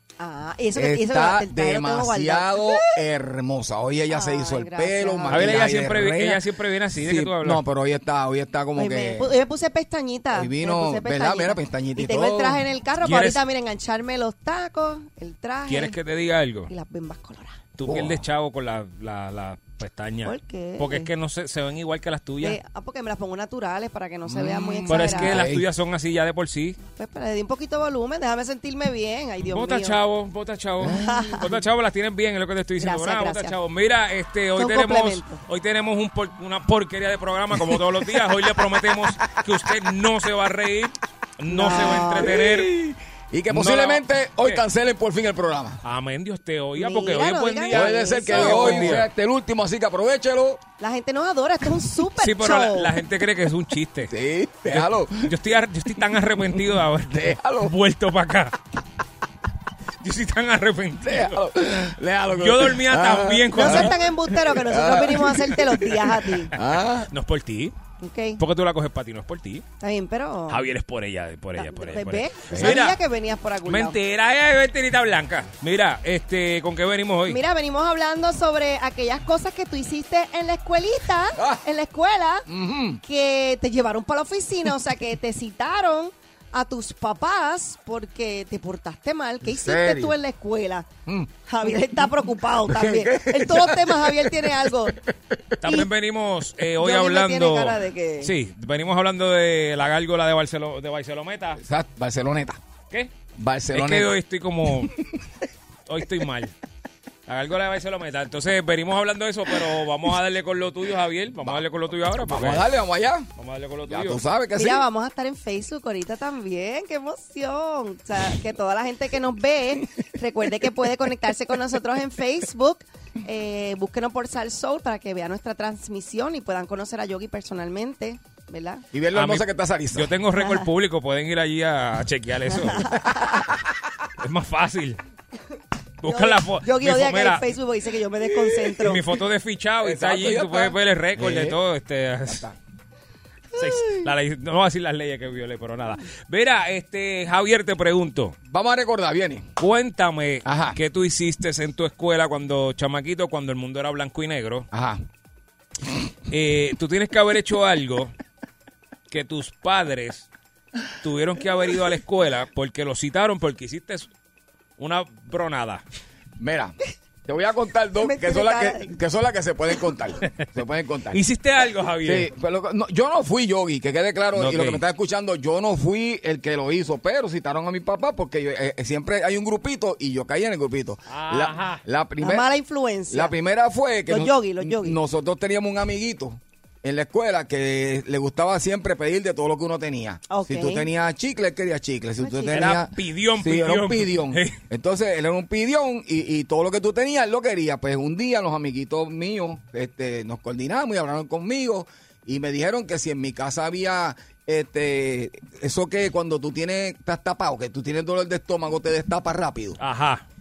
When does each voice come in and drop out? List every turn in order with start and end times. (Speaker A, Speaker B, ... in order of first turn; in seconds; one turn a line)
Speaker A: 0.2-2.9
Speaker B: 0.7-6.4
Speaker A: 4.1-5.7
Speaker C: 5.3-7.6
Speaker B: 6.9-9.3
Speaker A: 8.8-16.0
Speaker B: 10.3-12.6
Speaker C: 13.0-13.4
Speaker C: 15.7-16.7
Speaker A: 16.7-17.6
Speaker C: 17.8-22.6
Speaker B: 17.8-18.2
Speaker A: 20.2-21.1
Speaker A: 22.4-25.4
Speaker B: 24.3-25.6
Speaker C: 24.9-26.8
Speaker A: 26.9-30.0
Speaker C: 29.4-42.7
Speaker B: 30.8-31.2
Speaker A: 30.9-31.5
Speaker A: 32.8-33.5
Speaker A: 34.6-35.4
Speaker A: 41.5-42.3
Speaker B: 41.7-45.8
Speaker C: 43.5-44.6
Speaker C: 45.8-49.1
Speaker A: 46.8-49.0
Speaker B: 47.7-50.6
Speaker A: 50.8-52.9
Speaker C: 52.2-54.1
Speaker B: 54.1-55.3
Speaker C: 54.7-58.5
Speaker B: 57.0-57.7
Speaker C: 60.0-61.4
Speaker B: 61.0-67.1
Speaker C: 62.3-64.0
Speaker A: 63.5-66.5
Speaker C: 66.6-67.7
Speaker A: 68.0-68.4
Speaker C: 68.4-69.6
Speaker A: 69.8-70.6
Speaker C: 70.5-73.0
Speaker A: 71.6-74.0
Speaker B: 72.5-72.8
Speaker C: 73.6-77.4
Speaker A: 77.3-82.5
Speaker B: 81.4-81.6
Speaker B: 82.5-83.0
Speaker A: 83.0-90.9
Speaker B: 89.4-90.2
Speaker B: 91.0-92.1
Speaker A: 91.5-95.0
Speaker B: 92.6-95.4
Speaker C: 95.6-101.6
Speaker A: 96.8-98.3
Speaker B: 101.6-102.6
Speaker B: 103.4-104.1
Speaker C: 103.7-105.0
Speaker C: 105.9-106.5
Speaker C: 107.3-112.7
Speaker B: 111.4-113.3
Speaker C: 113.4-114.2
Speaker B: 113.9-114.8
Speaker A: 114.5-128.8
Speaker B: 128.9-130.1
Speaker C: 129.1-133.0
Speaker A: 130.4-130.6
Speaker A: 132.6-133.4
Speaker C: 134.2-135.0
Speaker C: 136.0-137.5
Speaker A: 136.0-139.0
Speaker B: 138.2-138.8
Speaker C: 138.8-142.4
Speaker B: 139.8-141.6
Speaker B: 142.2-142.5
Speaker C: 143.6-148.3
Speaker B: 148.5-149.5
Speaker C: 149.6-154.7
Speaker B: 150.4-150.8
Speaker B: 154.7-155.0
Speaker C: 156.3-158.1
Speaker C: 159.1-160.3
Speaker C: 161.0-164.1
Speaker C: 164.8-165.8
Speaker B: 166.4-171.2
Speaker A: 168.0-168.9
Speaker C: 171.1-172.3
Speaker B: 172.0-182.5
Speaker C: 174.3-174.8
Speaker C: 181.1-181.8
Speaker A: 182.2-183.3
Speaker B: 183.1-209.8
Speaker A: 184.1-185.0
Speaker A: 190.3-190.9
Speaker A: 192.2-192.7
Speaker C: 192.5-194.6
Speaker C: 209.8-210.2